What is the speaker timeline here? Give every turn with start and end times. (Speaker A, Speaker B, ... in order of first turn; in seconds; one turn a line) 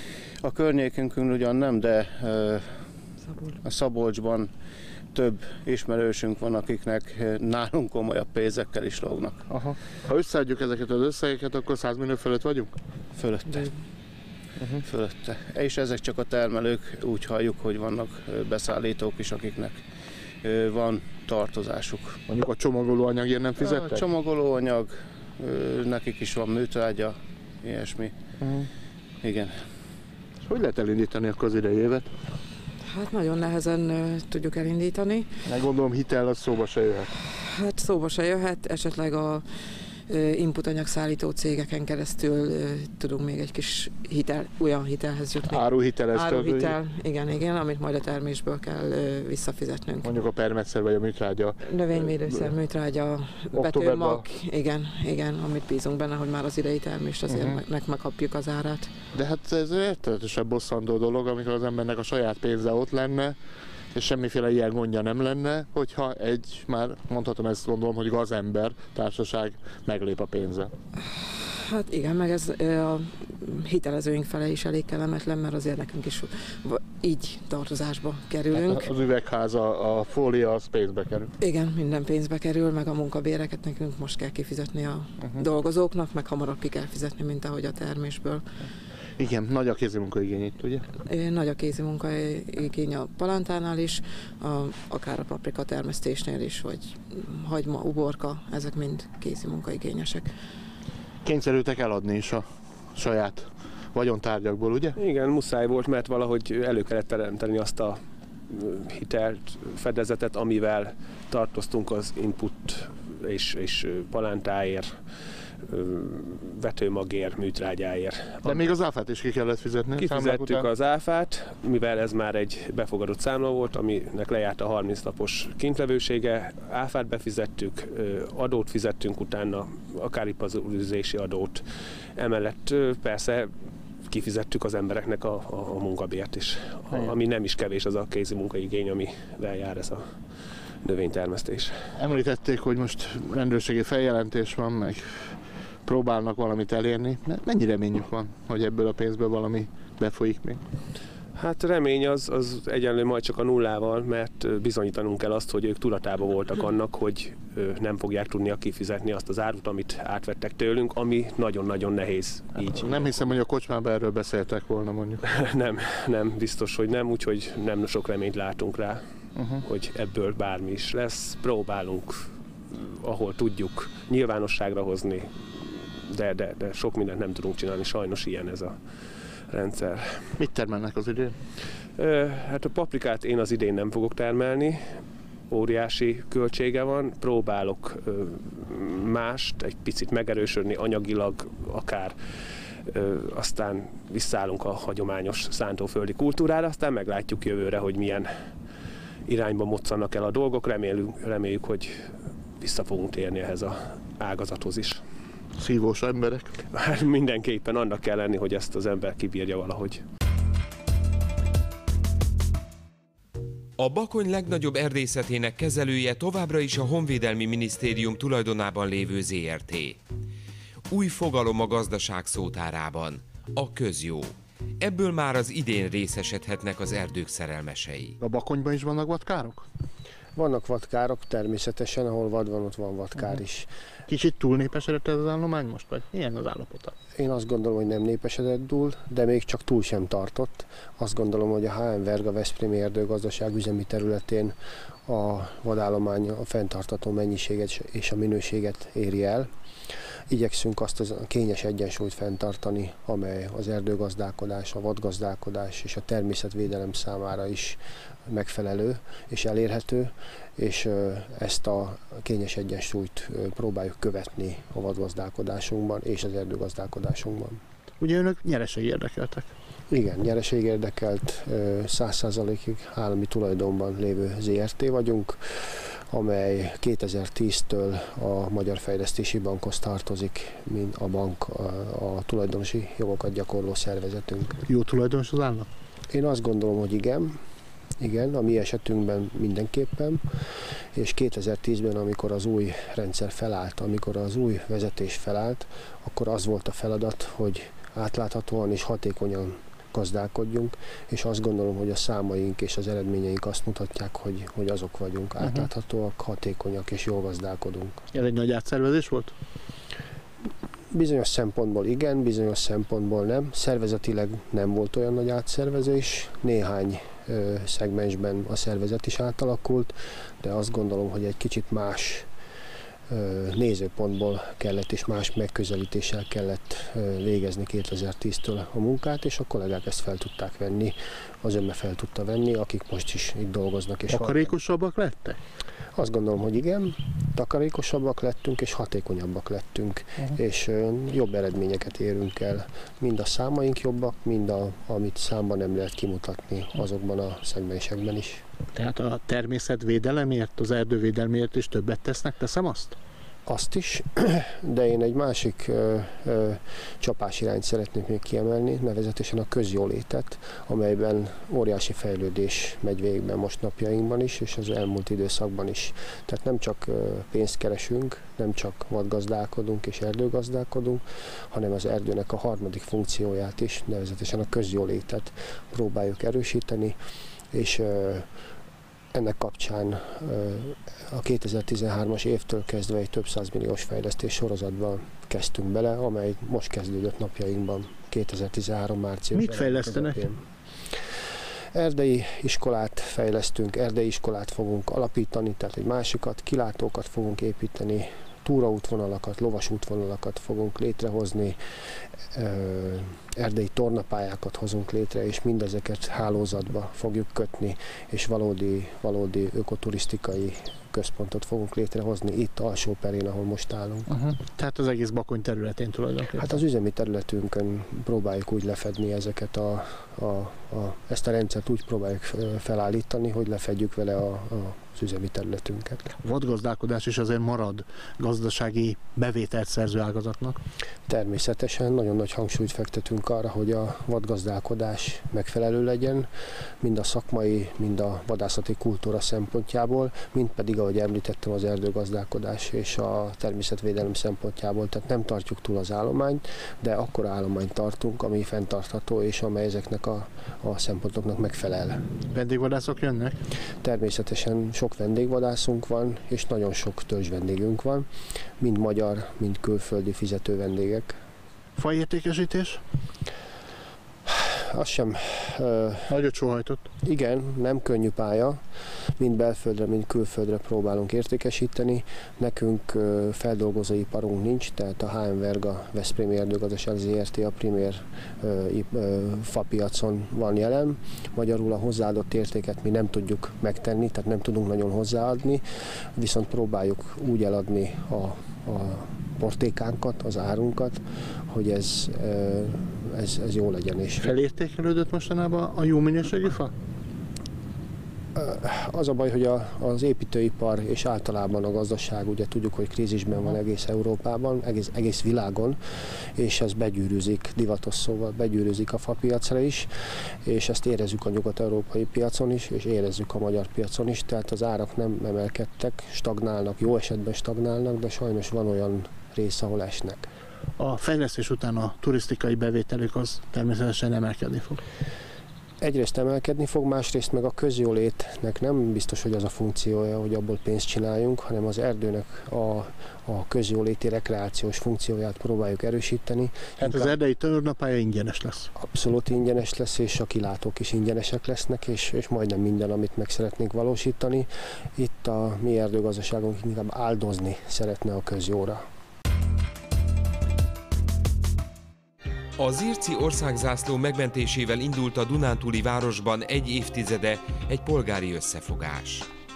Speaker A: 0.4-2.8
Speaker B: 3.3-3.6
Speaker A: 3.6-4.5
Speaker A: 5.1-9.4
Speaker C: 9.5-12.7
Speaker A: 13.1-13.8
Speaker C: 14.6-14.8
Speaker A: 14.8-19.8
Speaker A: 20.4-22.2
Speaker C: 22.3-24.1
Speaker A: 23.6-28.1
Speaker C: 28.4-28.7
Speaker A: 29.2-29.6
Speaker C: 30.4-32.1
Speaker B: 32.8-35.3
Speaker C: 35.4-37.1
Speaker B: 37.4-39.4
Speaker B: 40.1-50.1
Speaker C: 45.5-46.8
Speaker C: 50.0-52.4
Speaker B: 51.6-58.9
Speaker C: 53.5-54.2
Speaker C: 57.3-57.6
Speaker C: 59.1-63.4
Speaker C: 63.9-70.7
Speaker B: 71.4-78.9
Speaker C: 78.6-81.3
Speaker B: 81.4-88.5
Speaker C: 89.2-90.8
Speaker B: 91.1-100.3
Speaker C: 101.2-105.0
Speaker D: 105.0-118.7
Speaker C: 118.4-120.7
Speaker D: 120.0-133.5
Speaker D: 134.0-141.9
Speaker C: 142.0-150.6
Speaker D: 151.3-163.4
Speaker C: 162.7-165.2
Speaker D: 165.2-169.1
Speaker C: 169.3-169.6
Speaker D: 169.6-180.3
Speaker C: 180.4-181.3
Speaker D: 182.0-192.2
Speaker D: 192.8-198.3
Speaker D: 199.3-205.0
Speaker C: 205.6-206.6
Speaker D: 206.7-210.0
Speaker E: 213.8-220.0
Speaker E: 220.9-228.2
Speaker C: 228.2-229.6
Speaker F: 230.3-233.7
Speaker C: 234.1-236.9
Speaker F: 237.1-244.5
Speaker F: 245.1-249.5
Speaker F: 250.3-267.6
Speaker C: 268.0-269.5
Speaker F: 269.9-284.6
Speaker C: 284.7-285.7
Speaker F: 286.1-287.4
Speaker F: 288.0-308.0
Speaker C: 305.4-305.7
Speaker C: 308.1-309.3
Speaker F: 310.9-322.3
Speaker F: 323.1-334.5
Speaker C: 334.1-335.4
Speaker F: 335.9-348.4
Speaker C: 348.8-352.9
Speaker F: 353.4-376.9
Speaker F: 377.5-378.3
Speaker F: 379.1-390.4
Speaker C: 389.3-390.2
Speaker F: 391.7-401.6
Speaker F: 402.3-414.1
Speaker C: 414.1-416.5
Speaker F: 416.4-426.1
Speaker C: 426.2-430.6
Speaker F: 431.1-436.3
Speaker F: 436.8-452.0
Speaker C: 452.3-453.4
Speaker F: 453.8-458.1
Speaker F: 458.6-461.2
Speaker C: 461.8-462.8
Speaker F: 464.2-466.1
Speaker C: 466.1-466.9
Speaker F: 467.0-468.6
Speaker F: 469.2-494.3
Speaker C: 494.2-496.7
Speaker F: 498.3-520.3
Speaker C: 520.8-524.8
Speaker F: 525.8-537.1
Speaker C: 536.8-538.7
Speaker F: 538.8-548.8
Speaker E: 552.6-559.3